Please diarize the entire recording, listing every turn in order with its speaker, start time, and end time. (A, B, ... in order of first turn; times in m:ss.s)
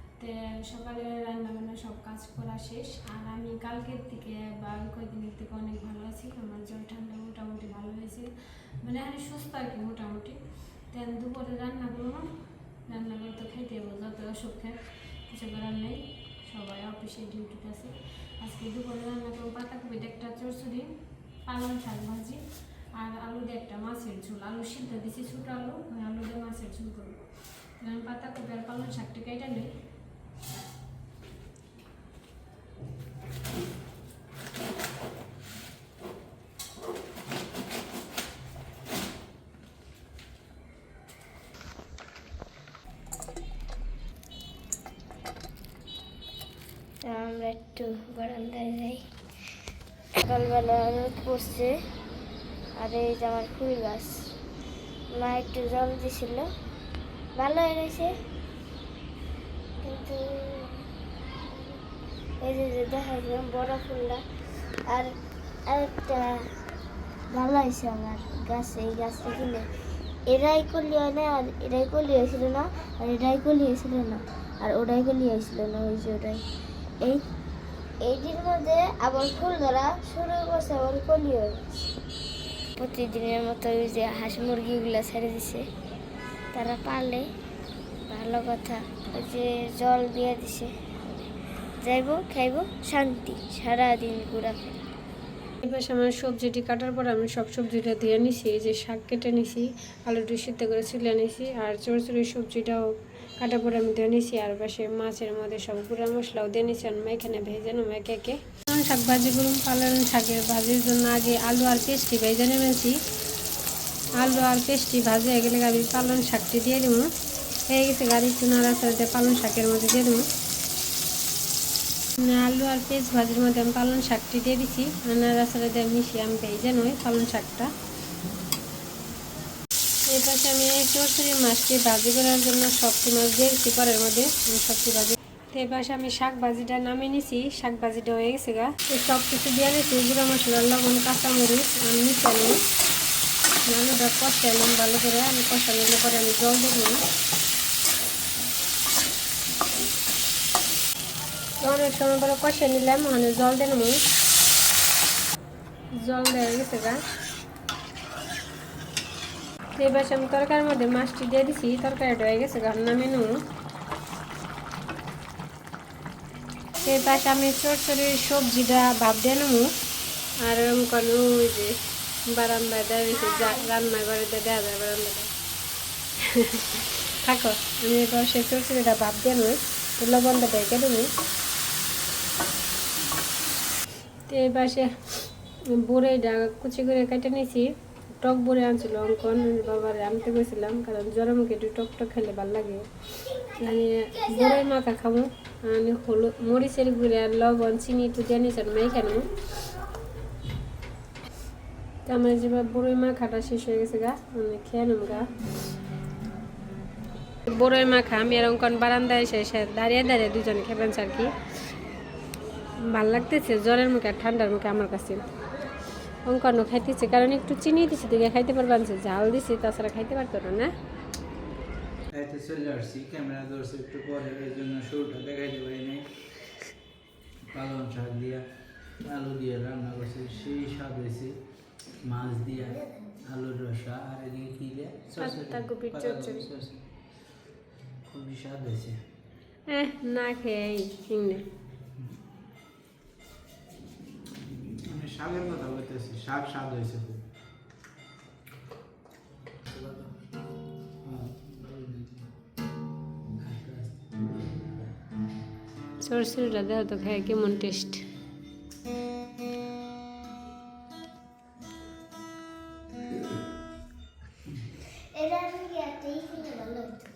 0:00.2-0:12.3 A
0:12.8-0:20.9 A
0:21.4-0:22.4 A
0:22.9-0:27.2 A
0:27.8-0:29.7 A
0:47.0-0:49.0 B
0:50.2-0:51.7 B
0:52.8-0:54.3 B
0:55.1-0:56.5 B
0:57.3-0:58.1 B
0:59.8-1:00.8 B
1:02.4-1:04.2 B
1:04.9-1:05.1 B
1:05.7-1:06.3 B
1:07.3-1:09.7 B
1:10.3-1:16.4 B
1:18.0-1:21.6 B
1:22.8-1:25.6 B
1:26.5-1:27.2 B
1:28.1-1:30.7 B
1:31.8-1:34.8 B
1:35.6-1:53.0 A
1:54.1-1:57.1 A
1:57.7-2:00.2 A
2:02.2-2:07.7 A
2:10.1-2:22.6 A
2:23.7-2:27.0 A
2:31.6-2:34.0 A
2:35.9-2:37.0 A
2:39.8-2:43.4 A
2:46.8-2:49.7 A
2:50.4-2:51.8 A
2:52.3-2:55.3 A
2:53.2-2:53.6 B
2:56.4-3:01.1 A
3:04.3-3:12.8 A
3:13.6-3:19.3 A
3:22.0-3:25.3 A
3:27.5-3:31.3 A
3:32.8-3:35.2 A
3:36.2-3:40.7 A
3:42.1-3:46.0 C
3:47.5-3:48.4 C
3:49.1-3:51.3 C
3:52.1-3:52.8 C
3:53.3-3:56.7 C
3:55.2-3:56.5 A
3:58.1-3:58.9 C
3:59.7-4:01.4 A
4:04.9-4:07.2 C
4:09.7-4:10.0 C
4:11.0-4:12.1 C
4:13.5-4:13.9 C
4:16.0-4:18.0 A
4:25.1-4:27.0 B